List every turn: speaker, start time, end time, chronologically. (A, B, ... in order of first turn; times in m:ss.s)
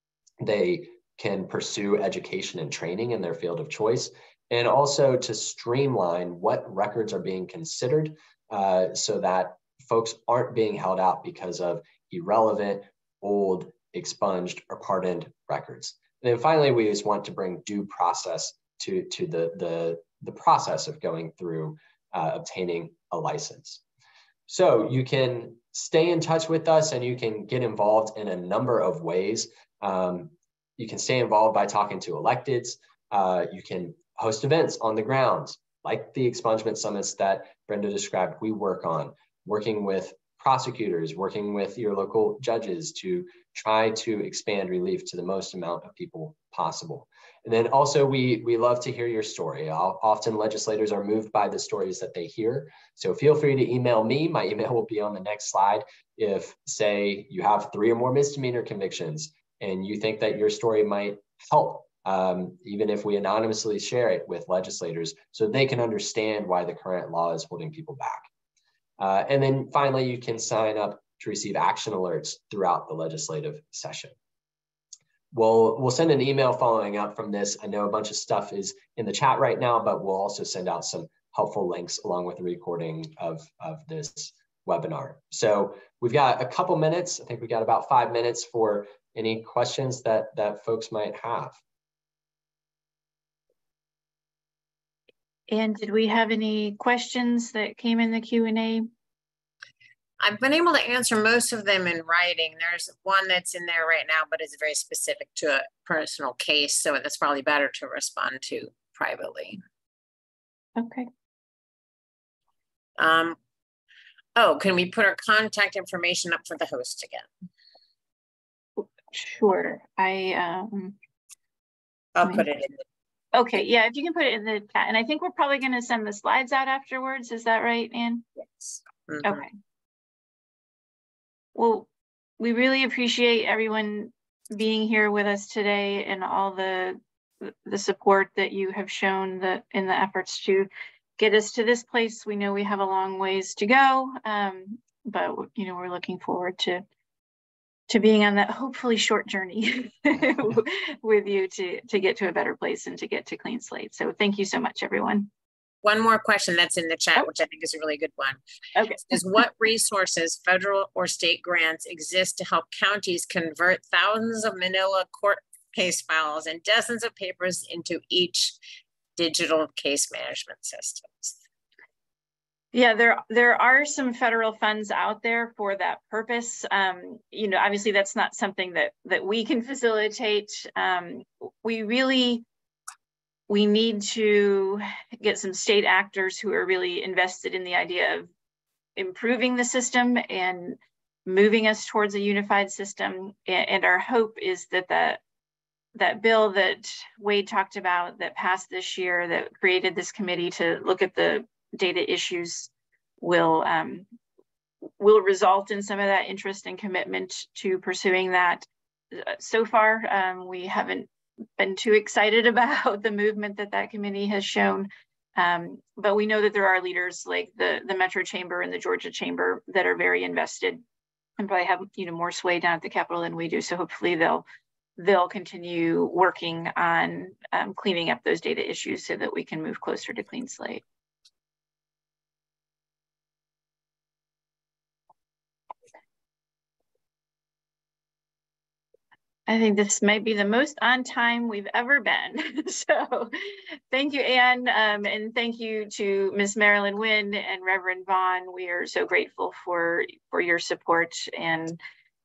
0:00.4-0:23.8 A
0:24.5-1:08.3 A
1:09.0-1:14.1 A
1:15.3-1:31.6 A
1:35.5-1:38.9 B
1:40.2-1:49.6 C
1:50.8-1:51.1 B
1:53.0-1:53.4 C
1:54.4-1:57.3 C
1:58.8-2:01.0 B
2:02.2-2:02.8 C
2:03.3-2:08.2 B
2:09.1-2:09.4 C
2:09.2-2:09.5 B
2:11.6-2:11.9 B
2:12.4-2:26.8 B
2:27.9-2:35.3 B
2:35.8-2:38.4 C
2:38.8-2:39.2 B
2:39.0-2:48.6 C
2:49.2-2:51.4 C
2:52.7-3:02.4 B
3:03.5-3:08.3 B
3:09.0-3:15.2 B
3:16.0-3:22.7 B
3:23.2-3:24.1 B
3:25.0-3:40.8 B
3:41.4-3:44.5 B
3:45.0-3:50.8 B
3:59.5-4:11.8 B